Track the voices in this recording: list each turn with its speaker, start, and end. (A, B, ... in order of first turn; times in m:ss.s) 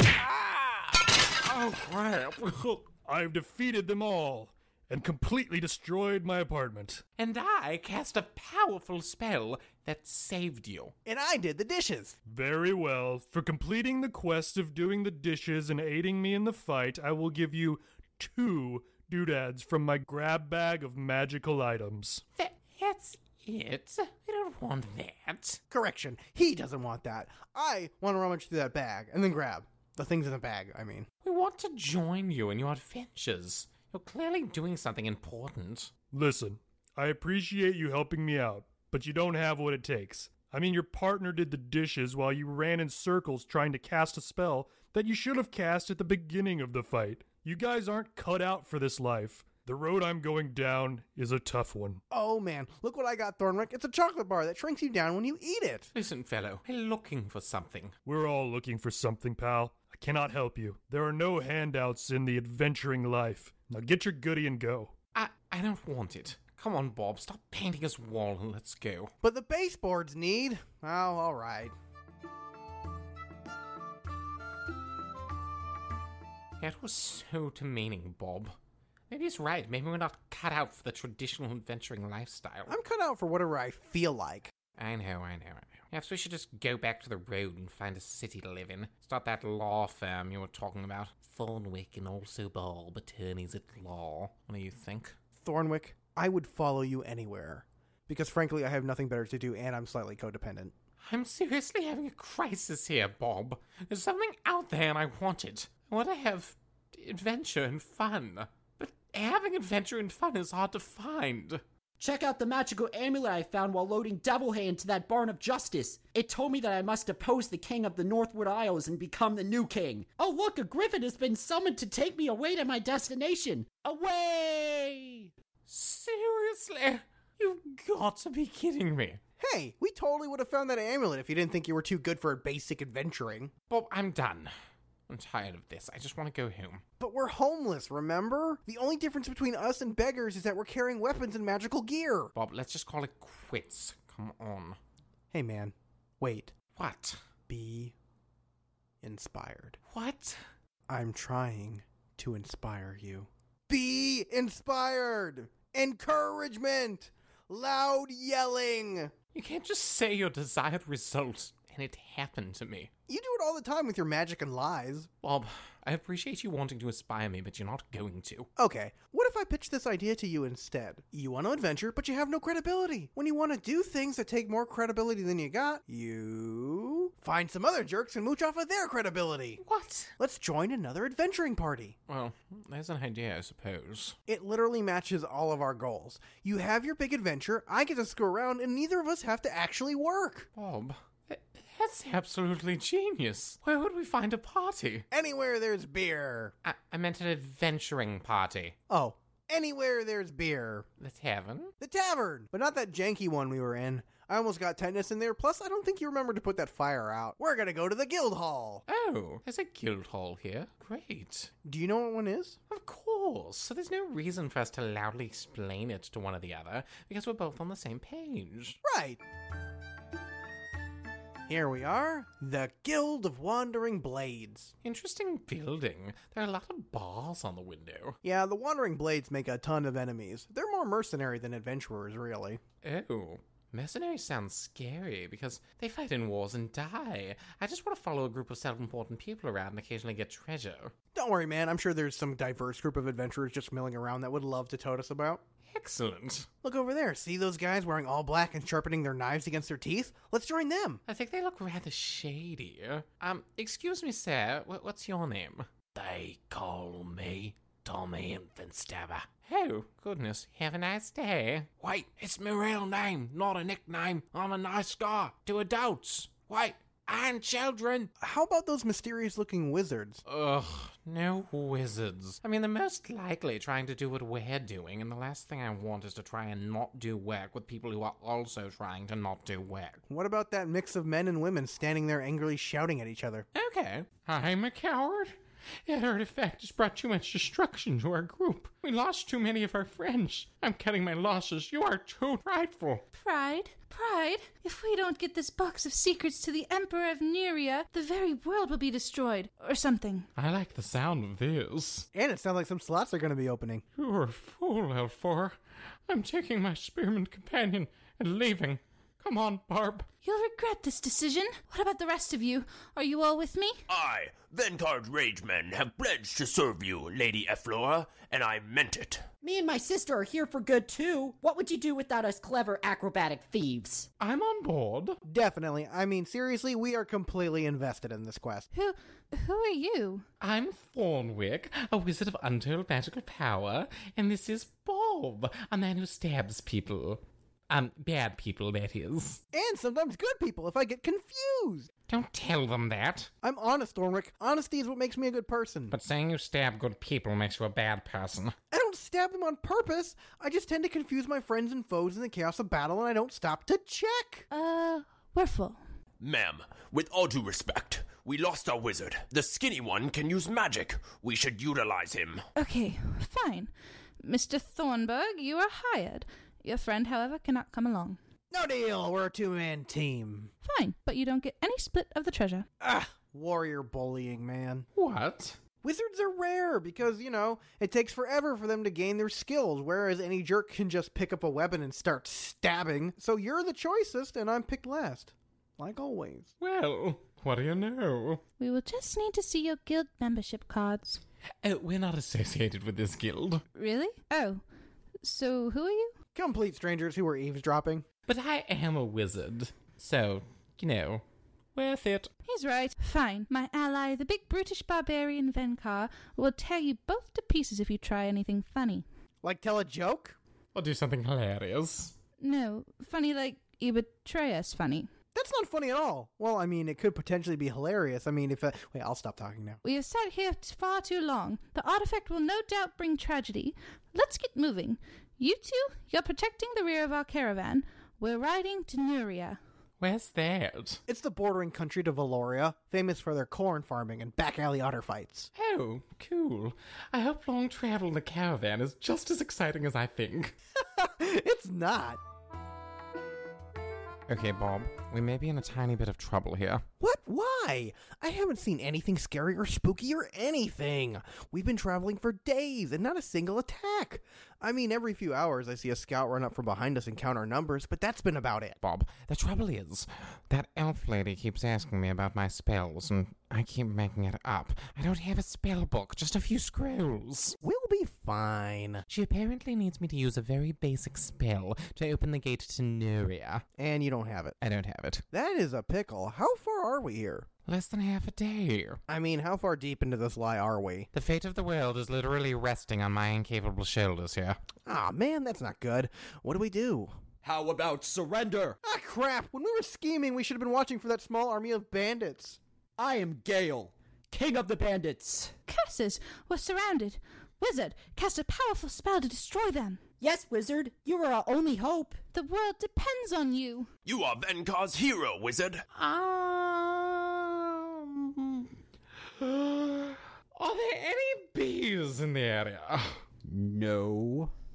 0:00.2-0:02.8 A
0:03.0-0:07.0 B
0:07.2-0:10.9 A
0:11.0-0:12.2 C
0:12.3-0:22.2 B
0:22.4-0:25.6 A
0:25.7-0:31.1 C
0:31.2-0:35.9 A
0:36.1-0:52.0 B
0:52.1-0:55.9 C
0:55.9-0:57.9 A
0:58.0-1:04.9 B
1:05.1-1:09.1 A
1:09.2-1:11.7 C
1:16.6-1:18.6 A
1:19.1-1:22.8 A
1:22.7-1:24.5 C
1:24.8-1:35.1 A
1:35.4-1:40.7 C
1:41.0-1:51.6 A
1:52.0-2:05.3 D
2:05.7-2:09.2 A
2:09.4-2:13.5 C
2:13.7-2:14.5 A
2:15.1-2:16.8 A
2:17.0-2:22.3 C
2:22.3-2:24.8 A
2:25.3-2:26.5 C
2:26.7-2:27.2 A
2:27.5-2:27.9 C
2:29.0-2:29.8 C
2:29.9-2:30.4 A
2:30.9-2:39.1 C
2:39.3-2:42.9 A
2:43.1-2:45.1 C
2:45.2-2:48.5 A
2:48.6-2:59.6 C
2:59.6-3:00.1 A
3:00.2-3:02.0 C
3:02.1-3:04.2 A
3:04.3-3:10.5 C
3:10.6-3:15.0 A
3:15.1-3:16.5 C
3:16.6-3:18.8 A
3:18.9-3:20.8 C
3:21.0-3:21.7 A
3:21.8-3:28.8 C
3:28.9-3:31.5 A
3:31.6-3:32.6 C
3:32.7-3:38.8 A
3:38.8-3:39.2 C
3:41.5-3:44.7 C
3:44.8-3:48.2 A
3:48.2-3:52.6 C
3:52.8-4:00.9 A
4:01.1-4:05.4 C
4:05.7-4:06.5 A
4:06.6-4:11.0 C
4:11.1-4:28.1 A
4:28.2-4:30.2 C
4:30.2-4:40.0 A
4:40.1-4:43.5 C
4:43.5-4:53.0 A
4:53.1-5:00.3 E
5:00.3-5:02.1 A
5:02.1-5:03.8 C
5:04.0-5:10.1 A
5:10.2-5:13.8 E
5:13.9-5:19.2 F
5:19.4-5:24.1 D
5:24.2-5:25.2 A
5:25.2-5:28.7 C
5:28.7-5:30.2 E
5:30.4-5:39.4 A
5:39.5-5:41.9 C
5:42.1-5:43.3 A
5:43.4-5:46.0 C
5:45.9-5:48.6 A
5:48.7-5:54.5 C
5:54.5-5:55.8 E
5:56.2-6:02.4 F
6:02.6-6:03.7 E
6:04.2-6:08.2 E
6:08.5-6:10.5 C
6:10.6-6:12.7 E
6:12.8-6:14.8 C
6:14.9-6:15.6 A
6:15.8-6:26.5 C
6:26.6-6:28.4 A
6:28.6-6:31.2 E
6:31.6-6:33.6 A
6:33.7-6:34.6 E
6:35.2-6:36.1 E
6:36.3-6:38.0 C
6:38.3-6:41.2 A
6:41.7-6:42.3 A
6:42.4-6:49.0 E
6:49.4-6:50.4 C
6:50.7-6:52.1 A
6:52.4-6:55.1 E
6:55.3-6:59.8 C
6:59.8-7:09.6 E
7:10.0-7:11.0 A
7:11.1-7:15.5 C
7:15.5-7:20.6 A
7:20.8-7:22.2 C
7:24.3-7:26.8 A
7:27.0-7:38.8 C
7:38.8-7:47.6 A
7:47.6-7:49.0 C
7:49.1-7:53.6 A
7:53.8-7:54.6 C
7:54.6-7:55.2 A
7:55.3-7:57.5 C
7:57.7-7:59.0 A
7:59.1-8:01.1 C
8:01.1-8:04.6 A
8:04.8-8:07.1 C
8:07.4-8:08.8 D
8:08.8-8:12.6 C
8:13.0-8:15.6 D
8:15.7-8:20.0 E
8:20.2-8:22.2 D
8:22.3-8:23.9 E
8:24.0-8:25.8 F
8:25.9-8:28.7 A
8:29.4-8:33.2 A
8:33.4-8:34.5 D